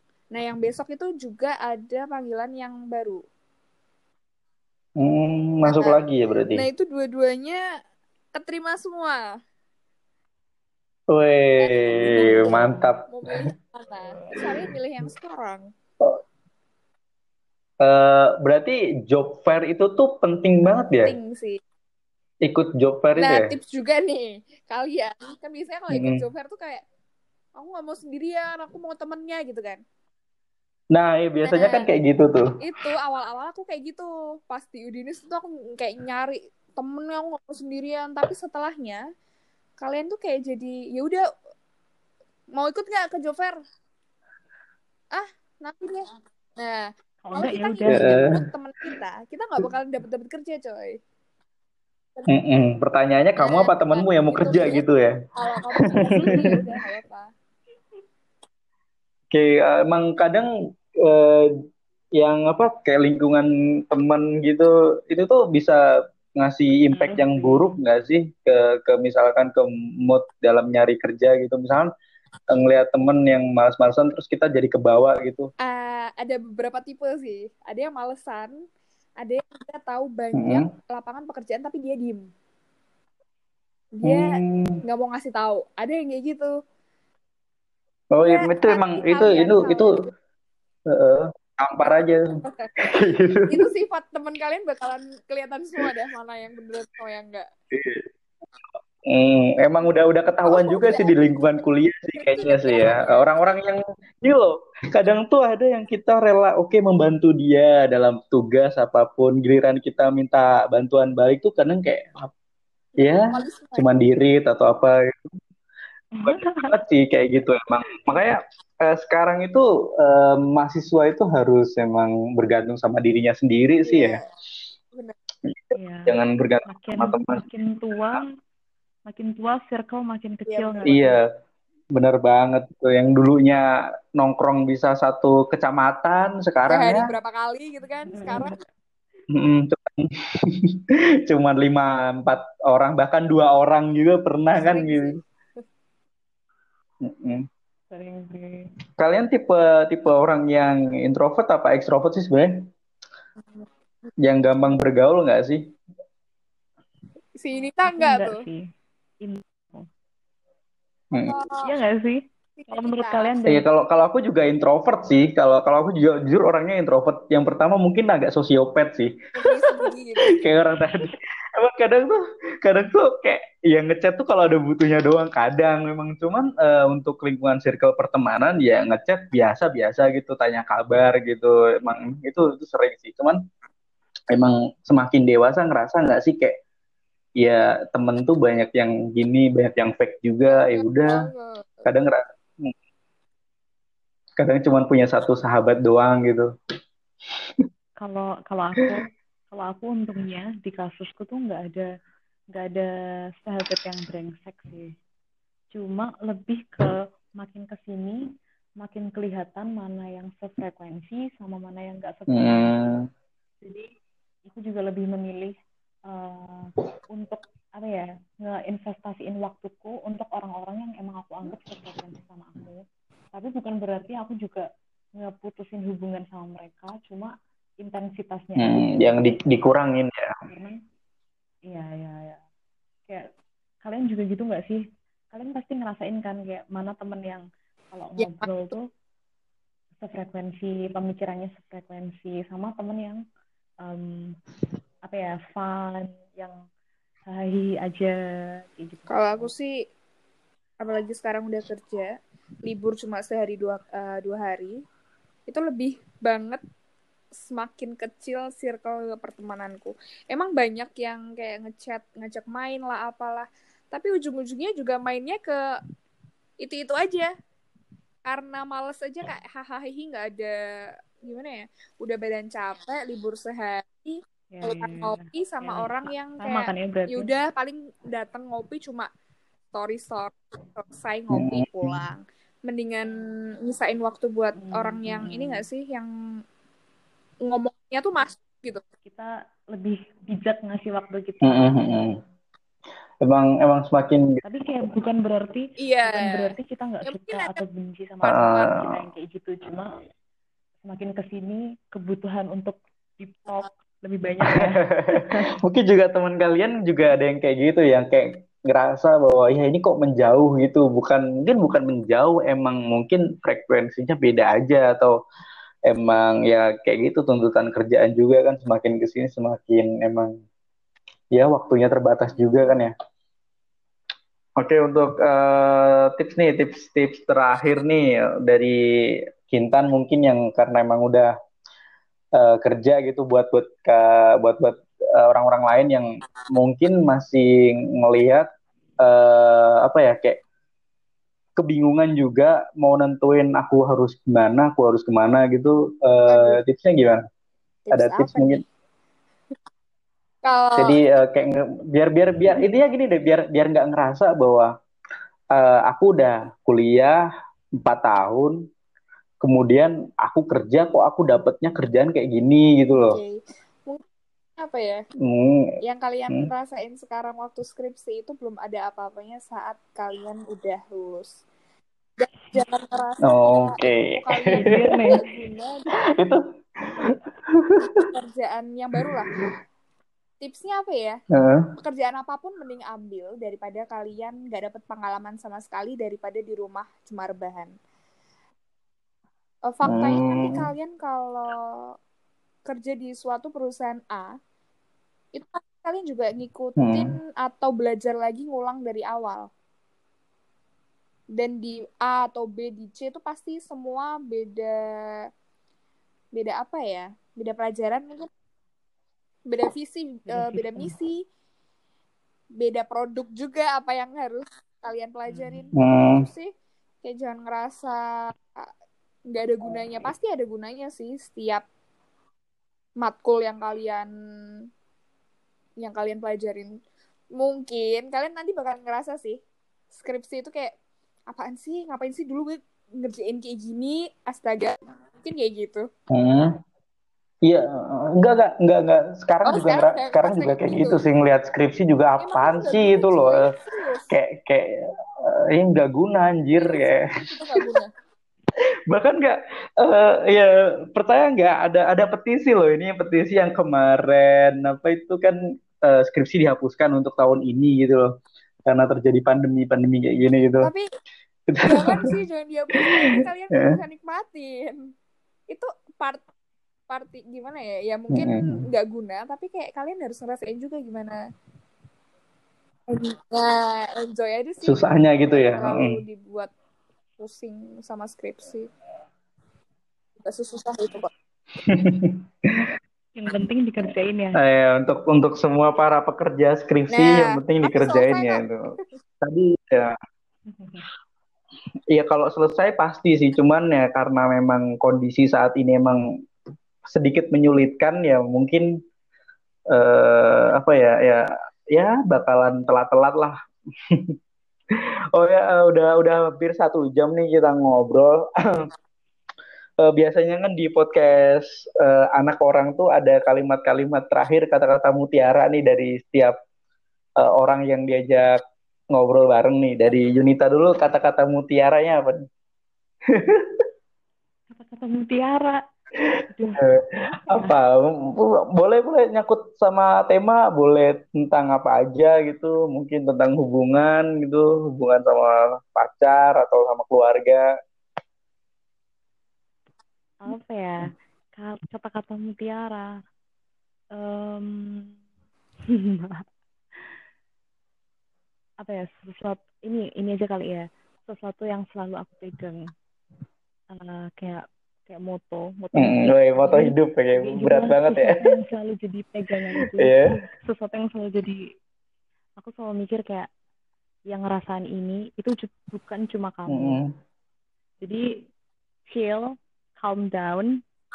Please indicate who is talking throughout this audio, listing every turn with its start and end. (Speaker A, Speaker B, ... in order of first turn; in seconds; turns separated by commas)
Speaker A: 0.3-3.2, Speaker B: 5.0-6.7, Speaker A: 5.7-6.0, Speaker A: 6.5-7.6, Speaker A: 8.3-9.3, Speaker B: 11.1-13.5, Speaker A: 11.6-15.7, Speaker C: 12.0-12.9, Speaker B: 17.8-21.1, Speaker A: 21.1-21.6, Speaker B: 22.4-23.5, Speaker A: 23.2-26.9, Speaker B: 25.9-26.2, Speaker A: 27.6-29.8, Speaker B: 30.9-32.5, Speaker A: 31.5-31.9, Speaker A: 32.6-39.0, Speaker A: 39.8-41.2, Speaker A: 42.5-43.6, Speaker A: 45.1-46.1, Speaker A: 46.6-51.0, Speaker C: 47.2-48.4, Speaker B: 47.9-48.3, Speaker B: 52.3-55.1, Speaker A: 53.4-54.9, Speaker A: 55.4-57.3, Speaker B: 55.9-56.6, Speaker B: 59.3-61.5, Speaker B: 62.2-65.8, Speaker B: 66.4-71.9, Speaker C: 66.9-67.8, Speaker B: 72.5-75.5, Speaker A: 75.6-78.6, Speaker A: 79.2-82.3, Speaker B: 80.3-80.7, Speaker A: 83.9-86.6, Speaker B: 84.0-84.8, Speaker B: 88.1-90.0, Speaker A: 88.3-90.1, Speaker B: 90.9-92.3, Speaker B: 92.8-93.7, Speaker A: 93.5-97.5, Speaker B: 97.7-98.1, Speaker B: 99.1-112.3, Speaker A: 100.5-101.6, Speaker A: 102.2-103.2, Speaker B: 113.0-115.2, Speaker A: 113.0-113.9, Speaker C: 116.2-116.7, Speaker B: 116.2-124.2, Speaker A: 123.8-124.2, Speaker B: 125.5-127.4, Speaker C: 125.8-126.2, Speaker C: 126.7-128.3, Speaker C: 129.1-131.2, Speaker A: 130.5-131.0, Speaker B: 130.9-131.2, Speaker B: 131.9-137.1, Speaker A: 136.7-138.6, Speaker C: 138.1-138.6, Speaker B: 139.3-145.2, Speaker A: 144.6-145.2, Speaker B: 147.0-147.5, Speaker C: 147.9-148.7, Speaker B: 149.0-152.7, Speaker B: 154.2-155.7, Speaker A: 157.4-158.4, Speaker C: 157.9-158.6, Speaker C: 159.2-159.9, Speaker B: 161.1-161.4, Speaker A: 161.2-161.7, Speaker C: 161.6-163.7, Speaker A: 162.6-163.3, Speaker B: 163.5-183.4, Speaker A: 169.4-170.4, Speaker B: 184.3-186.6, Speaker B: 187.4-191.3, Speaker A: 190.5-191.8, Speaker B: 191.8-192.7, Speaker B: 194.4-196.5, Speaker C: 198.0-201.9, Speaker C: 202.5-202.9, Speaker C: 203.4-204.9, Speaker C: 205.7-208.2, Speaker C: 208.8-212.8, Speaker B: 212.3-213.1, Speaker C: 213.6-213.9, Speaker C: 214.5-215.6, Speaker C: 216.1-229.4, Speaker B: 228.6-230.3, Speaker C: 230.5-230.8, Speaker C: 231.7-232.4, Speaker C: 233.8-238.9, Speaker A: 238.2-238.5, Speaker C: 240.0-243.2, Speaker C: 243.8-244.4, Speaker C: 245.1-246.6, Speaker C: 247.3-249.5, Speaker A: 249.1-249.8, Speaker A: 250.8-254.8, Speaker A: 255.5-256.6, Speaker A: 257.4-265.6, Speaker A: 266.6-267.3, Speaker A: 268.2-270.6, Speaker A: 271.2-279.1, Speaker C: 274.5-277.3, Speaker A: 279.7-286.1, Speaker B: 281.3-282.0, Speaker C: 284.6-285.6, Speaker A: 287.4-288.8, Speaker C: 289.1-292.0, Speaker B: 291.4-292.2, Speaker B: 293.2-294.4, Speaker C: 294.4-299.9, Speaker A: 295.8-297.5, Speaker B: 298.2-299.0, Speaker C: 300.8-305.5, Speaker B: 304.5-315.1, Speaker B: 315.9-320.4, Speaker B: 321.3-322.9, Speaker B: 324.6-328.8, Speaker B: 329.5-331.3, Speaker B: 332.4-338.5, Speaker B: 339.0-340.4, Speaker B: 341.6-347.2, Speaker A: 346.3-346.6, Speaker A: 347.9-348.6, Speaker B: 347.9-348.6, Speaker A: 350.4-351.0, Speaker B: 350.8-354.7, Speaker B: 355.5-357.2, Speaker B: 357.8-358.6, Speaker B: 359.4-363.2, Speaker A: 362.9-364.0, Speaker A: 364.6-365.0, Speaker B: 365.2-365.7, Speaker A: 365.8-371.4, Speaker A: 372.2-375.9, Speaker B: 373.2-375.0, Speaker C: 374.5-375.2, Speaker B: 376.1-376.4, Speaker B: 377.0-378.1, Speaker A: 378.0-379.3, Speaker A: 380.4-381.2, Speaker B: 381.3-381.7, Speaker A: 381.8-387.7, Speaker A: 389.7-391.9, Speaker B: 389.9-390.7, Speaker A: 392.7-394.4, Speaker A: 395.3-399.5, Speaker B: 396.8-397.1, Speaker A: 401.4-405.3, Speaker A: 406.4-408.3, Speaker A: 409.5-411.2, Speaker C: 410.3-410.9, Speaker A: 412.6-416.5, Speaker C: 415.3-415.6, Speaker B: 415.8-416.3, Speaker A: 417.0-418.0, Speaker A: 419.3-421.6, Speaker A: 423.0-424.6, Speaker A: 425.8-426.8, Speaker A: 427.4-429.4, Speaker A: 429.9-430.7, Speaker A: 431.3-435.9, Speaker B: 436.1-436.6, Speaker B: 437.4-443.4, Speaker A: 439.5-441.0, Speaker A: 442.2-444.1, Speaker B: 444.1-447.1, Speaker A: 446.6-447.9, Speaker B: 448.9-458.1, Speaker B: 458.7-460.7, Speaker B: 461.5-462.1, Speaker A: 461.6-464.8, Speaker B: 462.7-463.8, Speaker A: 465.5-466.2, Speaker A: 466.9-471.2, Speaker B: 468.1-468.6, Speaker A: 472.9-476.5, Speaker B: 474.6-476.0, Speaker A: 477.2-478.7, Speaker A: 480.2-481.1, Speaker B: 481.6-482.6, Speaker C: 483.2-484.4, Speaker B: 484.4-490.0, Speaker A: 486.9-488.9, Speaker C: 490.5-490.9, Speaker B: 491.9-496.0, Speaker B: 496.9-498.7, Speaker B: 499.7-503.4, Speaker B: 503.9-504.1, Speaker B: 505.1-508.7, Speaker B: 509.8-516.4, Speaker B: 517.2-518.4, Speaker B: 518.9-522.2, Speaker B: 523.1-523.6, Speaker C: 524.5-525.6, Speaker C: 526.3-526.6, Speaker B: 526.6-537.4, Speaker C: 527.3-527.5, Speaker C: 540.2-542.9, Speaker C: 544.0-544.9, Speaker C: 545.7-546.3, Speaker C: 548.6-552.6, Speaker C: 553.7-561.4, Speaker B: 555.8-558.2, Speaker B: 559.7-560.0, Speaker C: 562.4-563.3, Speaker C: 564.1-566.8, Speaker B: 566.5-566.9, Speaker C: 568.9-570.6